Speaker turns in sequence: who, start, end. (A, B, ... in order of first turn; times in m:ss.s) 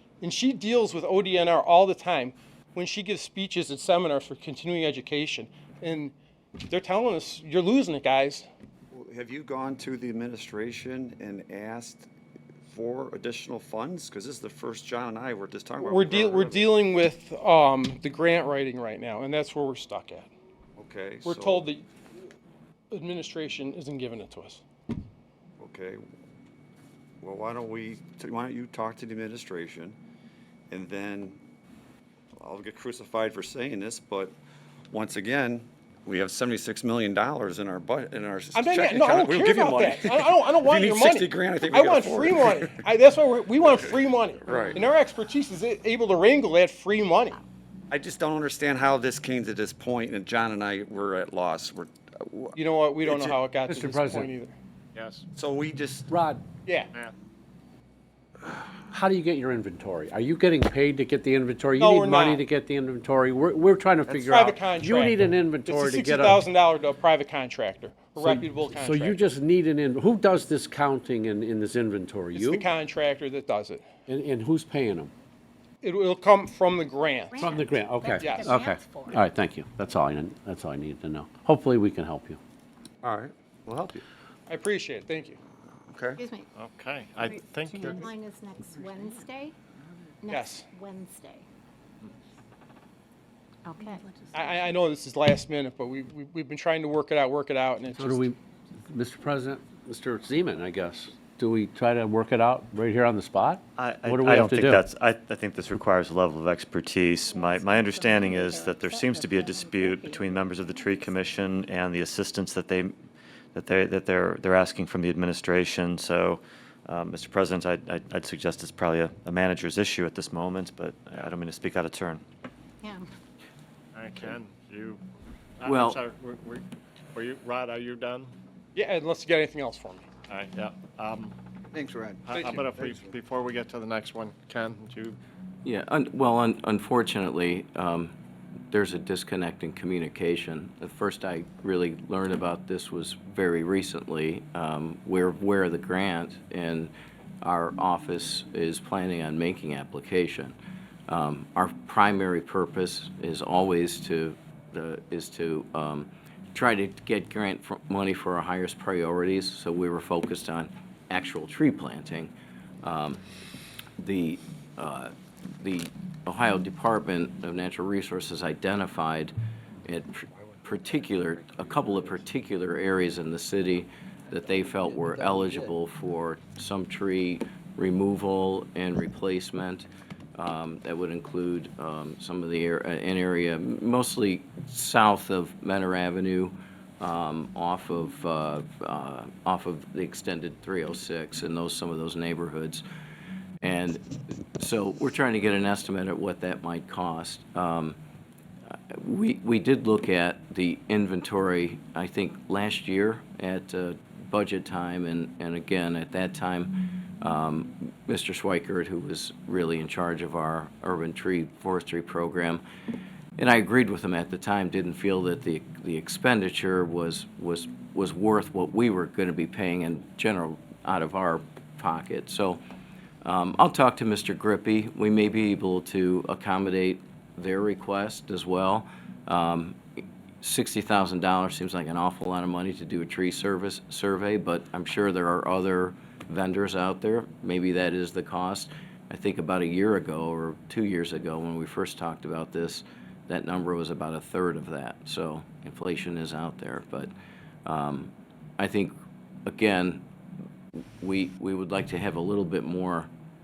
0:00.2-0:06.1 A
0:06.7-0:08.5 A
0:08.9-0:12.1 B
0:12.7-0:16.7 B
0:15.8-0:20.3 A
0:20.8-0:21.7 B
0:21.2-0:21.8 A
0:22.9-0:24.6 A
0:25.6-0:26.0 B
0:27.2-0:30.0 B
0:30.7-0:31.4 B
0:32.4-0:34.4 B
0:34.9-0:42.7 B
0:38.5-0:47.4 A
0:44.4-0:44.9 B
0:47.9-0:53.4 B
0:52.5-0:54.5 A
0:53.7-0:54.3 C
0:55.3-0:56.1 B
0:56.1-0:56.4 C
0:56.6-0:56.9 A
0:58.4-1:06.4 C
1:01.8-1:02.4 A
1:04.1-1:09.2 A
1:08.2-1:12.6 C
1:12.3-1:13.8 A
1:14.1-1:15.1 C
1:15.8-1:17.5 A
1:17.3-1:19.2 D
1:17.4-1:22.4 C
1:18.2-1:18.6 A
1:23.0-1:24.0 B
1:24.5-1:25.4 A
1:25.9-1:26.2 B
1:26.2-1:26.5 D
1:26.6-1:28.0 E
1:27.2-1:29.5 D
1:30.2-1:31.4 D
1:30.3-1:30.6 A
1:33.6-1:34.0 D
1:34.3-1:38.2 A
1:38.0-1:38.4 C
1:38.9-1:44.8 C
1:43.8-1:52.9 F
1:47.3-1:50.5 D
1:53.5-2:02.2 F
2:04.0-2:05.0 E
2:05.6-2:06.0 G
2:05.7-2:06.6 E
2:07.1-2:08.3 E
2:08.7-2:10.0 A
2:10.3-2:11.3 E
2:11.7-2:13.1 B
2:12.3-2:12.6 A
2:12.3-2:15.1 E
2:15.6-2:18.1 G
2:18.7-2:30.6 G
2:31.1-2:43.2 G
2:44.0-2:49.3 G
2:49.8-3:12.8 G
3:13.6-3:18.0 G
3:18.9-3:32.6 G
3:33.4-3:42.6 G
3:43.2-3:49.8 G
3:50.4-4:07.1 G
4:07.6-4:08.9 G
4:09.4-4:10.0 G
4:11.0-4:13.1 G